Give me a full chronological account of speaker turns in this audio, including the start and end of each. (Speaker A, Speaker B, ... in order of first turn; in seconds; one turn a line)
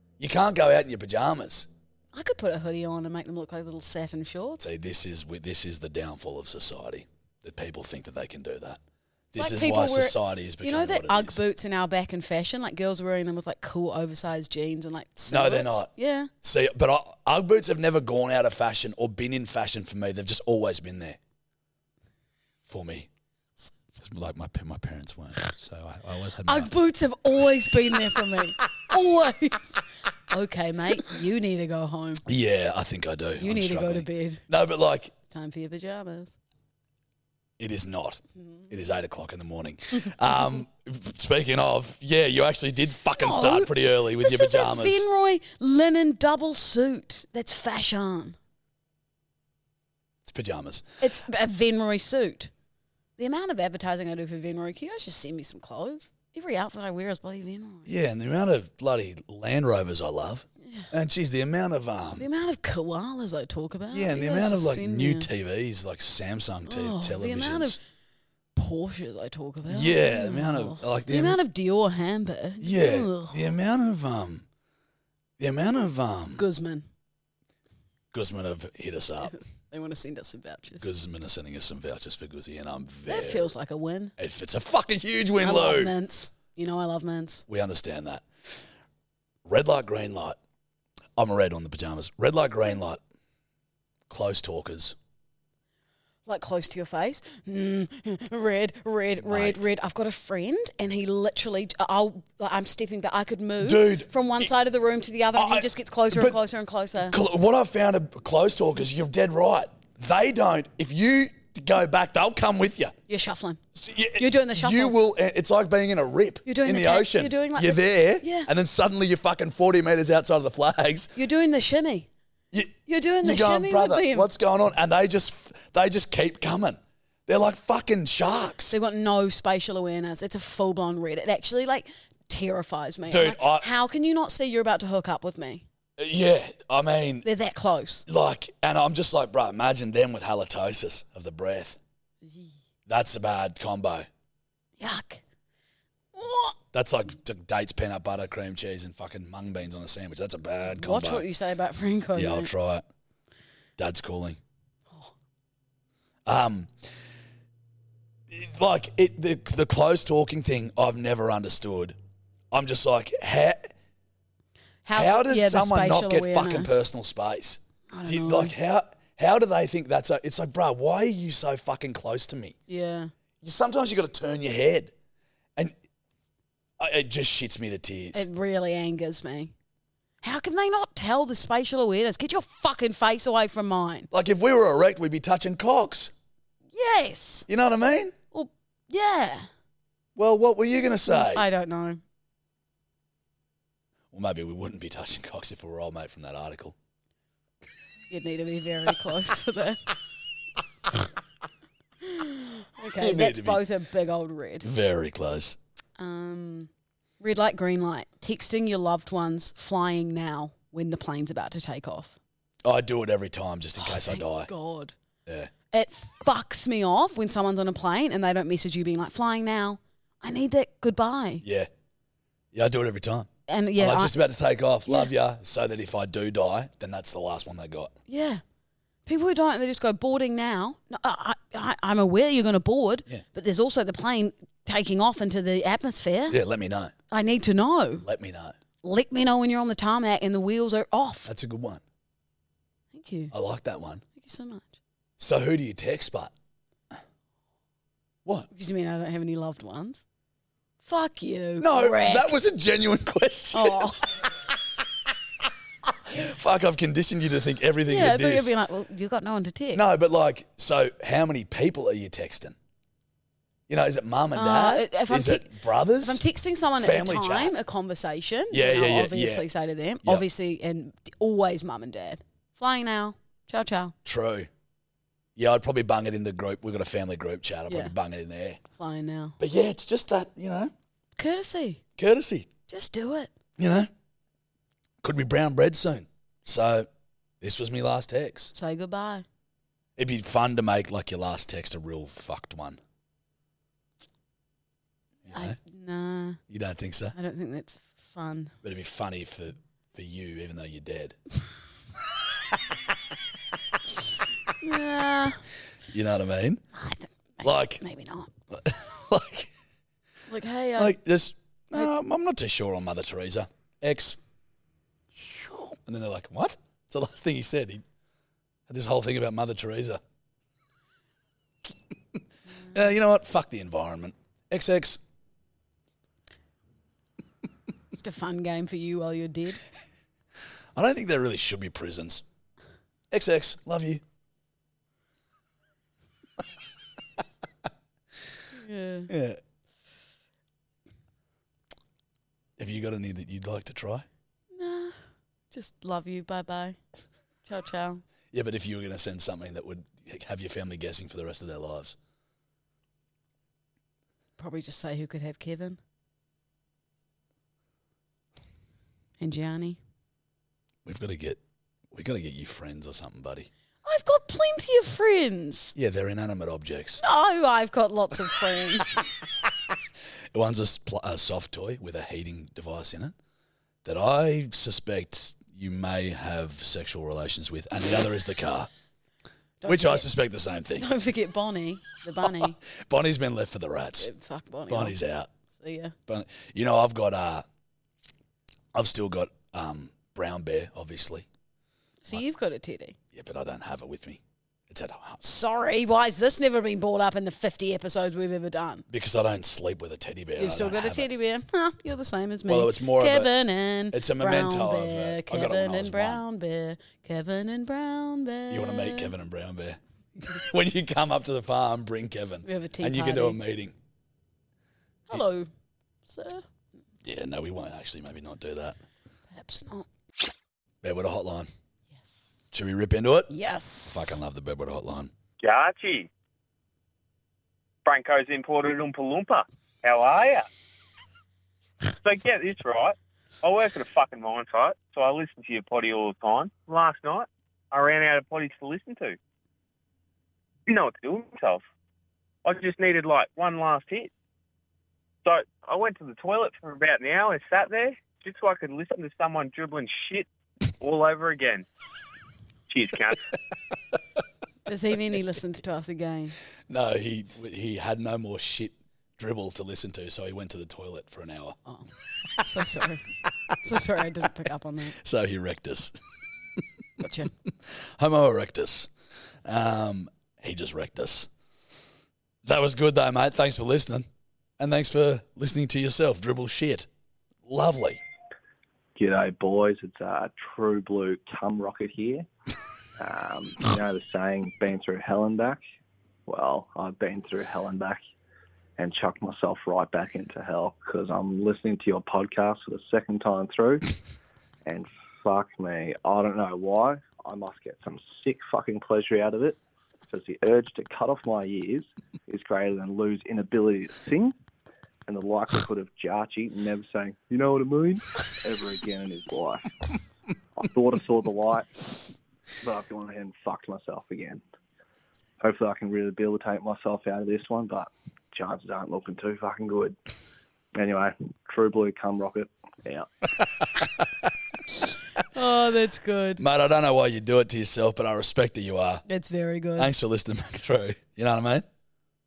Speaker A: 0.2-1.7
Speaker B: 2.1-4.7
Speaker A: 4.6-8.8
Speaker A: 9.3-11.4
Speaker B: 9.3-16.3
Speaker A: 15.3-15.9
Speaker A: 16.4-21.2
Speaker A: 22.7-23.1
Speaker A: 24.0-26.7
Speaker B: 26.4-32.2
Speaker A: 32.2-35.1
Speaker B: 33.4-34.4
Speaker B: 35.3-36.4
Speaker A: 37.6-45.0
Speaker B: 38.4-38.7
Speaker B: 40.0-40.6
Speaker B: 43.2-48.4
Speaker A: 50.2-50.9
Speaker B: 51.0-52.5
Speaker B: 53.2-57.9
Speaker A: 57.9-62.3
Speaker B: 60.6-60.9
Speaker B: 62.2-65.3
Speaker A: 63.9-67.8
Speaker B: 66.7-67.8
Speaker B: 68.5-73.5
Speaker A: 69.7-71.4
Speaker A: 72.6-74.5
Speaker A: 75.4-76.4
Speaker B: 76.3-76.9
Speaker A: 78.1-79.4
Speaker B: 79.7-80.9
Speaker A: 80.8-83.5
Speaker B: 83.1-84.1
Speaker A: 84.2-85.9
Speaker B: 85.4-87.4
Speaker A: 87.5-88.2
Speaker A: 89.4-90.4
Speaker A: 91.2-93.0
Speaker A: 94.1-95.0
Speaker B: 96.2-107.2
Speaker A: 99.2-99.7
Speaker A: 103.6-104.5
Speaker A: 105.3-106.4
Speaker A: 107.1-112.9
Speaker B: 113.1-113.6
Speaker A: 113.7-121.1
Speaker B: 114.2-115.0
Speaker B: 116.5-118.5
Speaker B: 121.2-122.1
Speaker A: 122.5-128.7
Speaker B: 122.9-124.3
Speaker B: 128.7-135.6
Speaker A: 133.1-133.7
Speaker A: 136.0-137.2
Speaker B: 137.2-138.0
Speaker A: 138.1-141.8
Speaker B: 142.2-142.5
Speaker A: 142.9-144.1
Speaker B: 144.8-145.2
Speaker B: 146.1-146.6
Speaker A: 146.7-151.3
Speaker B: 150.7-152.5
Speaker A: 152.1-152.8
Speaker A: 153.8-154.4
Speaker A: 156.2-156.7
Speaker A: 158.3-162.0
Speaker A: 162.5-163.7
Speaker B: 164.8-166.8
Speaker A: 164.9-172.6
Speaker B: 167.9-168.5
Speaker B: 172.7-173.1
Speaker A: 173.4-174.9
Speaker A: 176.8-178.2
Speaker B: 178.1-179.5
Speaker B: 180.2-184.1
Speaker A: 184.1-186.1
Speaker B: 186.7-187.5
Speaker A: 187.5-188.1
Speaker B: 188.3-189.5
Speaker A: 190.2-191.5
Speaker B: 191.1-192.0
Speaker A: 194.1-196.7
Speaker B: 198.1-199.8
Speaker B: 202.0-204.7
Speaker A: 203.0-203.6
Speaker A: 204.6-205.6
Speaker B: 206.0-212.2
Speaker A: 212.6-214.5
Speaker B: 213.8-214.9
Speaker A: 215.2-215.5
Speaker B: 215.7-221.4
Speaker A: 221.4-221.7
Speaker A: 222.5-227.9
Speaker B: 223.5-224.2
Speaker B: 228.1-228.4
Speaker B: 229.1-236.4
Speaker A: 236.3-236.9
Speaker B: 237.1-238.1
Speaker A: 238.0-238.6
Speaker B: 238.8-241.3
Speaker A: 241.2-241.8
Speaker B: 242.9-243.3
Speaker A: 243.3-244.0
Speaker B: 244.1-244.8
Speaker A: 245.2-246.3
Speaker B: 248.5-250.0
Speaker B: 250.8-252.4
Speaker A: 251.6-254.5
Speaker B: 253.5-254.0
Speaker A: 255.9-258.5
Speaker B: 257.9-259.8
Speaker A: 259.7-262.6
Speaker A: 263.7-266.2
Speaker B: 264.3-273.9
Speaker A: 266.8-267.5
Speaker A: 268.5-269.5
Speaker A: 274.0-274.5
Speaker A: 275.4-278.6
Speaker B: 277.7-277.9
Speaker B: 278.8-279.4
Speaker A: 279.4-280.7
Speaker B: 281.1-281.8
Speaker A: 282.0-282.5
Speaker B: 282.7-283.3
Speaker A: 283.6-283.9
Speaker A: 285.0-286.9
Speaker A: 287.4-288.5
Speaker B: 288.5-289.2
Speaker A: 290.0-292.8
Speaker A: 295.2-295.6
Speaker B: 295.3-296.4
Speaker A: 296.5-297.1
Speaker B: 297.1-298.5
Speaker A: 298.6-301.2
Speaker B: 304.6-305.4
Speaker A: 305.9-306.6
Speaker B: 306.7-308.3
Speaker A: 307.4-307.8
Speaker A: 308.5-309.5
Speaker B: 310.3-311.0
Speaker A: 310.8-314.2
Speaker A: 315.2-317.8
Speaker A: 318.7-320.0
Speaker A: 322.7-325.0
Speaker B: 328.0-329.6
Speaker A: 330.7-332.2
Speaker A: 333.1-334.0
Speaker B: 338.5-339.1
Speaker A: 339.1-339.4
Speaker A: 342.6-344.1
Speaker B: 344.5-344.9
Speaker B: 345.5-346.8
Speaker B: 347.4-348.0
Speaker A: 348.3-351.9
Speaker B: 354.4-355.8
Speaker B: 359.2-359.8
Speaker A: 360.8-361.4
Speaker A: 361.9-363.5
Speaker B: 363.8-365.7
Speaker A: 365.7-367.0
Speaker B: 367.0-369.1
Speaker A: 370.3-373.1
Speaker A: 373.8-378.7
Speaker B: 379.6-380.1
Speaker A: 379.6-380.9
Speaker B: 380.8-382.6
Speaker A: 382.2-384.1
Speaker B: 384.0-384.9
Speaker A: 384.7-385.3
Speaker B: 385.6-385.9
Speaker A: 386.1-387.4
Speaker A: 388.7-391.2
Speaker B: 392.0-392.9
Speaker A: 393.1-395.3
Speaker B: 395.2-398.8
Speaker A: 398.9-401.1
Speaker B: 400.4-409.1
Speaker A: 402.5-403.3
Speaker A: 403.9-406.2
Speaker A: 408.5-413.7
Speaker B: 412.4-413.4
Speaker B: 415.1-415.5
Speaker B: 416.1-416.4
Speaker A: 417.0-418.8
Speaker B: 419.3-419.9
Speaker A: 420.8-421.5
Speaker A: 422.5-423.3
Speaker B: 423.3-424.2
Speaker A: 423.9-425.1
Speaker C: 425.4-426.1
Speaker C: 427.8-430.4
Speaker C: 432.0-439.2
Speaker C: 440.7-441.6
Speaker C: 442.4-444.1
Speaker C: 445.2-450.3
Speaker C: 450.8-451.6
Speaker C: 452.7-453.2
Speaker B: 454.7-456.4
Speaker A: 456.7-461.6
Speaker B: 461.6-463.0
Speaker B: 463.6-464.9
Speaker A: 464.9-466.0
Speaker B: 467.0-467.3
Speaker A: 467.6-468.9
Speaker A: 469.4-471.3
Speaker A: 472.4-474.1
Speaker A: 474.6-476.9
Speaker A: 477.4-478.0
Speaker D: 478.9-482.3
Speaker D: 483.0-485.6
Speaker D: 486.3-488.0
Speaker D: 488.8-493.9
Speaker D: 494.6-499.6
Speaker D: 500.1-504.3
Speaker D: 505.1-509.7
Speaker D: 510.6-511.9
Speaker D: 512.6-514.4
Speaker D: 515.4-520.0
Speaker D: 520.7-523.1
Speaker B: 525.3-526.4
Speaker A: 526.4-529.0
Speaker B: 529.1-529.9
Speaker A: 529.8-531.6